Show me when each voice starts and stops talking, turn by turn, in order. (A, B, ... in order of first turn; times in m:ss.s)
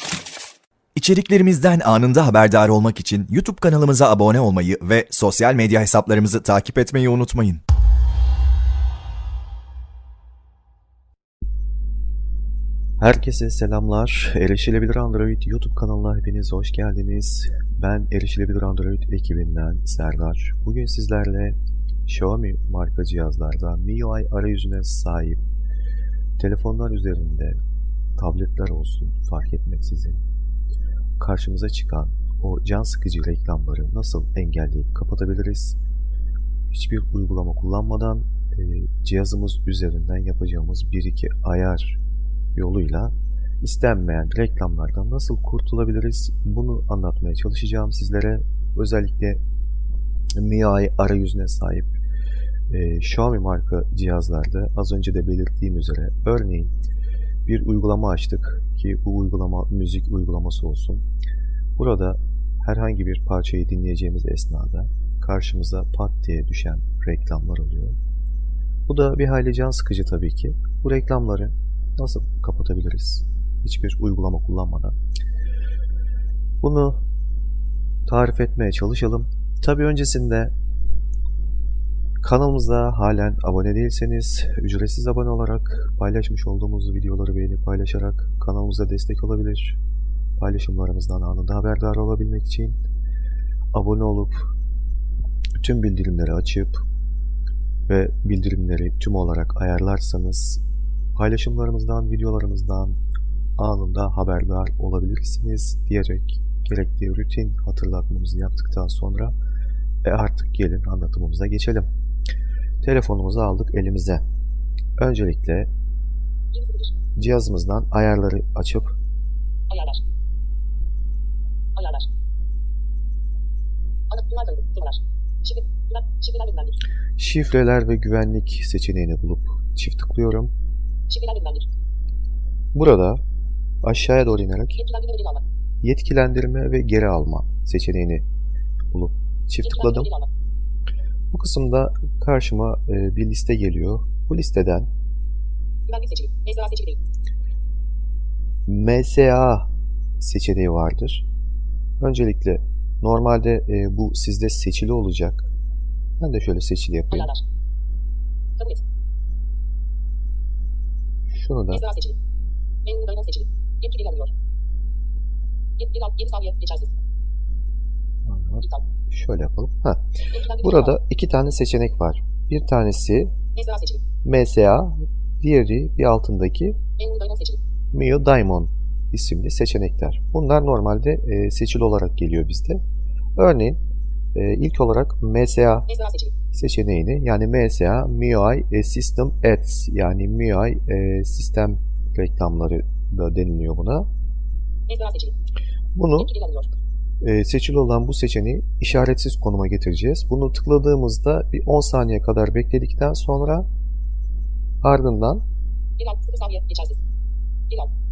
0:00.9-0:07.6 A
0:13.0-0:25.4 B
0:26.4-0:27.6 B
0:28.2-0:30.2 B
0:31.2-0:35.8 B
0:36.7-0:42.0 B
0:42.5-0:49.4 B
0:50.4-0:52.0 B
0:52.7-0:56.7 B
0:57.4-1:01.0 B
1:01.8-1:08.0 B
1:08.9-1:15.0 B
1:16.6-1:17.0 B
1:18.0-1:20.5 B
1:22.2-1:29.8 B
1:30.4-1:32.8 B
1:33.7-1:34.5 B
1:35.6-1:36.8 B
1:37.9-1:40.6 B
1:41.1-1:43.0 B
1:43.6-1:49.3 B
1:50.0-1:51.9 B
1:52.8-1:54.2 B
1:55.0-1:55.7 B
1:57.2-1:58.9 B
2:04.3-2:04.9 C
2:05.9-2:06.7 C
2:07.2-2:10.5 B
2:11.2-2:11.6 C
2:12.7-2:13.2 B
2:13.8-2:14.9 B
2:15.8-2:18.2 B
2:18.9-2:20.1 B
2:21.3-2:24.9 B
2:25.9-2:27.0 C
2:28.6-2:29.7 B
2:30.2-2:31.2 B
2:32.0-2:35.5 B
2:36.2-2:37.4 B
2:41.3-2:41.9 B
2:42.9-2:44.3 C
2:45.9-2:46.8 C
2:48.2-2:50.0 B
2:50.5-2:53.3 B
2:54.2-2:56.8 B
2:57.2-2:57.5 C
2:57.9-3:02.8 B
3:03.4-3:03.8 B
3:04.3-3:05.9 B
3:06.5-3:14.1 B
3:15.0-3:15.3 C
3:15.9-3:16.4 B
3:17.2-3:23.7 B
3:24.8-3:25.4 B
3:26.0-3:27.0 C